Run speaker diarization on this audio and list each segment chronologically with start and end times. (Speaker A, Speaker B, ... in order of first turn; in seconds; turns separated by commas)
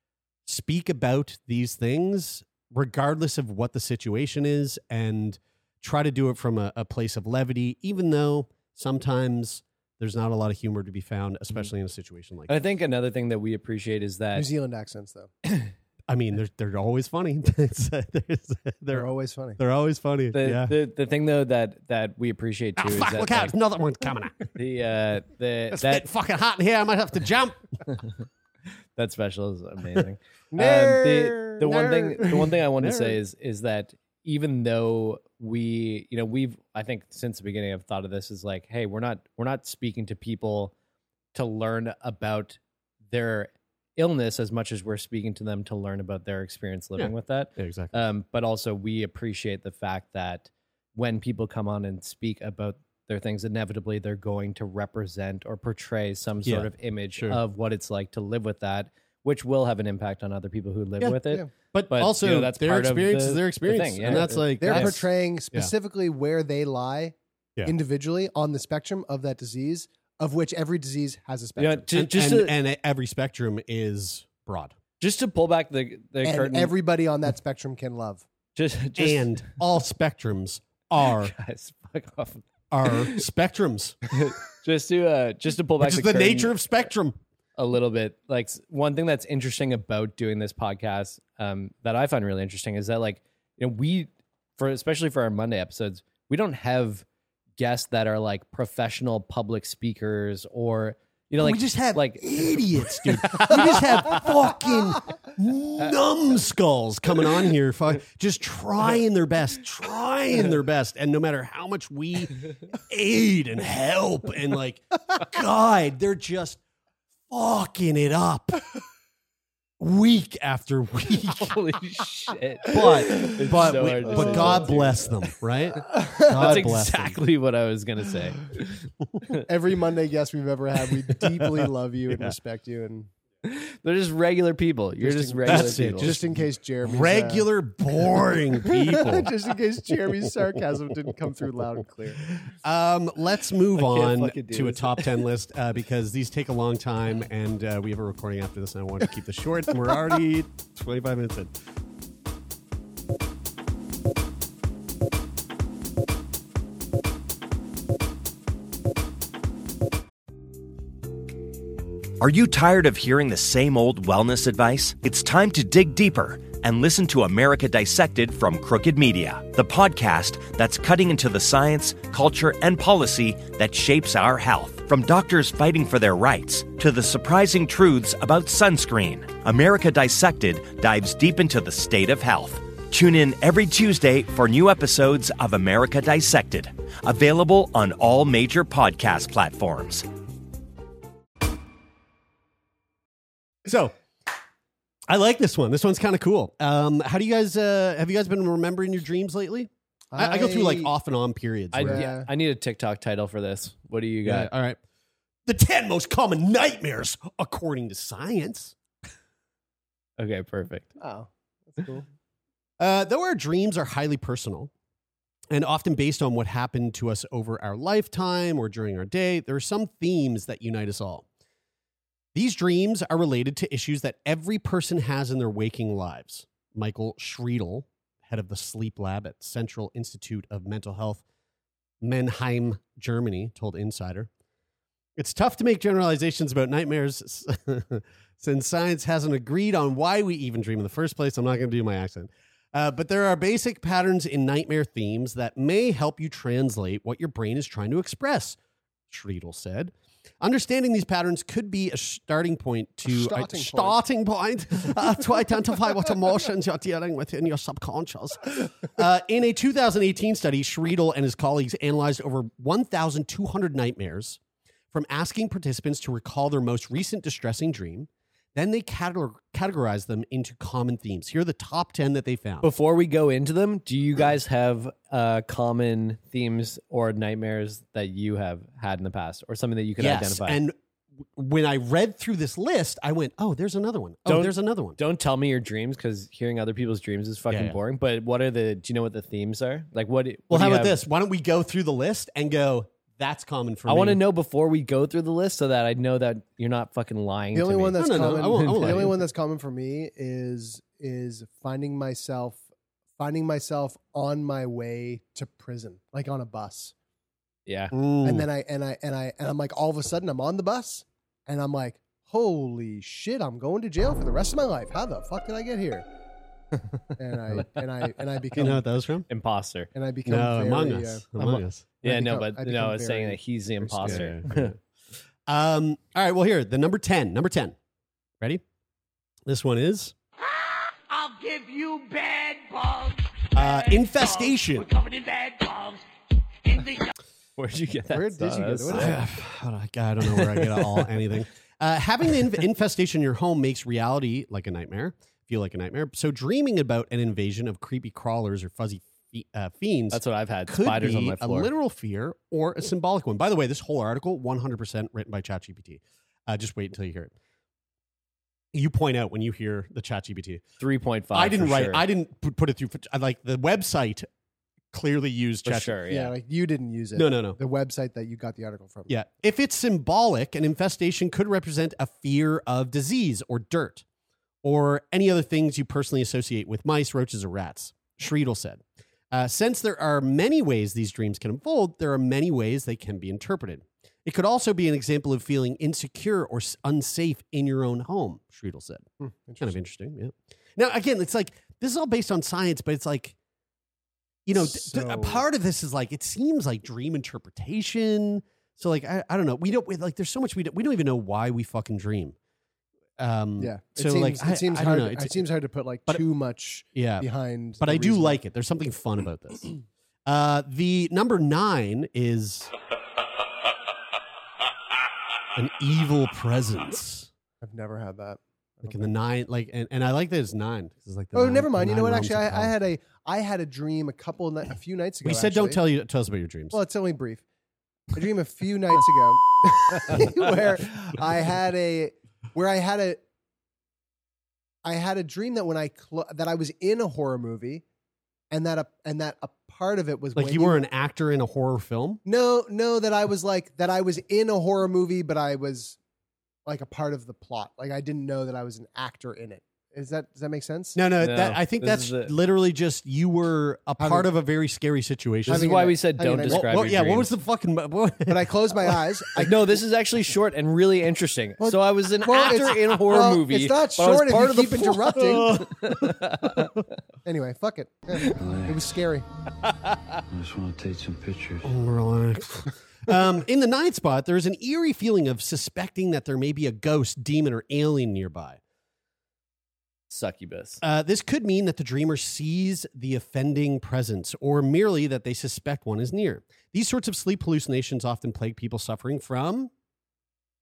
Speaker A: 0.4-12.5, Speaker B: 12.5-14.5, Speaker C: 14.3-15.3, Speaker A: 16.1-20.7, Speaker C: 18.9-19.6, Speaker B: 20.3-23.5, Speaker A: 22.8-24.4, Speaker B: 24.5-26.1, Speaker A: 25.7-27.8, Speaker B: 29.0-40.7, Speaker C: 30.6-31.7, Speaker A: 30.6-33.2, Speaker B: 41.3-42.6, Speaker B: 43.1-65.0, Speaker A: 47.0-47.9, Speaker A: 56.4-57.4, Speaker A: 61.7-65.7, Speaker C: 64.1-71.9, Speaker B: 71.6-72.5, Speaker A: 71.9-74.8, Speaker B: 75.0-76.7, Speaker C: 76.2-78.2, Speaker B: 78.5-79.5, Speaker A: 79.0-81.3, Speaker B: 81.0-83.2, Speaker A: 82.7-84.0, Speaker B: 84.1-86.5, Speaker A: 85.8-87.2, Speaker B: 87.6-97.0, Speaker B: 97.6-104.2, Speaker A: 101.4-116.6, Speaker A: 117.3-118.6, Speaker A: 119.8-121.6, Speaker B: 121.4-125.1, Speaker A: 122.6-127.2, Speaker C: 122.8-124.8, Speaker C: 125.8-126.7, Speaker B: 126.3-129.3, Speaker C: 129.4-133.1, Speaker A: 131.2-132.4, Speaker B: 133.4-136.2, Speaker C: 135.0-137.5, Speaker A: 135.4-139.3, Speaker C: 138.6-142.3, Speaker A: 142.3-151.5, Speaker B: 143.7-145.2, Speaker D: 162.2-190.1, Speaker A: 193.6-193.9, Speaker A: 195.1-202.1, Speaker C: 200.1-200.9, Speaker B: 201.7-204.5, Speaker C: 201.8-202.3, Speaker A: 204.2-204.8, Speaker A: 205.4-208.7, Speaker B: 210.2-210.9, Speaker C: 211.0-212.1, Speaker A: 212.8-214.7, Speaker A: 215.5-221.2, Speaker A: 222.3-231.2, Speaker A: 232.0-234.3, Speaker A: 235.2-248.6, Speaker A: 249.1-264.4, Speaker C: 253.1-254.0, Speaker A: 264.9-272.7, Speaker B: 272.6-280.6, Speaker A: 280.0-280.8, Speaker A: 281.3-285.0, Speaker B: 284.2-291.0, Speaker A: 287.5-287.8, Speaker A: 290.5-294.2, Speaker B: 293.9-299.1, Speaker C: 297.5-302.6, Speaker A: 298.0-299.2, Speaker C: 303.2-306.9, Speaker B: 307.7-307.9, Speaker A: 307.9-308.5, Speaker C: 308.2-316.0, Speaker C: 317.2-318.8, Speaker A: 318.5-319.3, Speaker B: 319.3-319.9, Speaker C: 319.9-321.3, Speaker A: 320.2-321.9, Speaker B: 321.4-324.7, Speaker C: 322.0-323.4, Speaker A: 323.8-324.8, Speaker C: 323.9-324.3, Speaker A: 325.4-327.8, Speaker A: 329.4-330.1, Speaker E: 330.9-336.0, Speaker A: 333.5-334.9, Speaker E: 336.6-337.1, Speaker B: 337.6-339.2, Speaker C: 338.1-339.2, Speaker A: 338.9-357.3, Speaker B: 340.3-341.0, Speaker B: 350.1-351.7, Speaker A: 358.7-360.6, Speaker B: 360.8-362.0, Speaker A: 361.3-364.3, Speaker A: 364.9-366.0, Speaker B: 365.6-366.3, Speaker C: 366.1-369.1, Speaker A: 367.1-367.6, Speaker A: 369.1-374.0, Speaker A: 374.6-389.1, Speaker C: 389.2-389.8, Speaker A: 389.6-393.4, Speaker A: 394.4-402.4, Speaker C: 394.5-395.4, Speaker A: 403.2-405.5, Speaker C: 403.6-408.4, Speaker A: 406.9-407.3, Speaker A: 407.8-409.7, Speaker A: 410.2-412.7, Speaker A: 415.6-417.3, Speaker C: 417.6-419.1, Speaker A: 418.8-422.8, Speaker C: 421.3-425.8, Speaker A: 425.2-426.8, Speaker C: 426.7-427.4, Speaker C: 428.1-433.2, Speaker A: 429.9-430.4, Speaker C: 434.8-437.8, Speaker C: 438.5-440.8, Speaker A: 440.3-442.2, Speaker C: 442.2-446.0, Speaker C: 446.6-451.0, Speaker A: 450.9-455.9, Speaker B: 451.2-452.4, Speaker C: 454.0-454.3, Speaker C: 455.5-456.8, Speaker B: 455.5-457.3, Speaker A: 456.4-459.2, Speaker C: 458.3-459.8, Speaker B: 459.4-466.9, Speaker C: 461.6-465.6, Speaker A: 465.0-466.2, Speaker C: 467.2-469.2, Speaker E: 468.4-468.9, Speaker E: 470.3-471.7, Speaker A: 471.6-478.6, Speaker B: 480.1-480.8, Speaker A: 480.8-489.7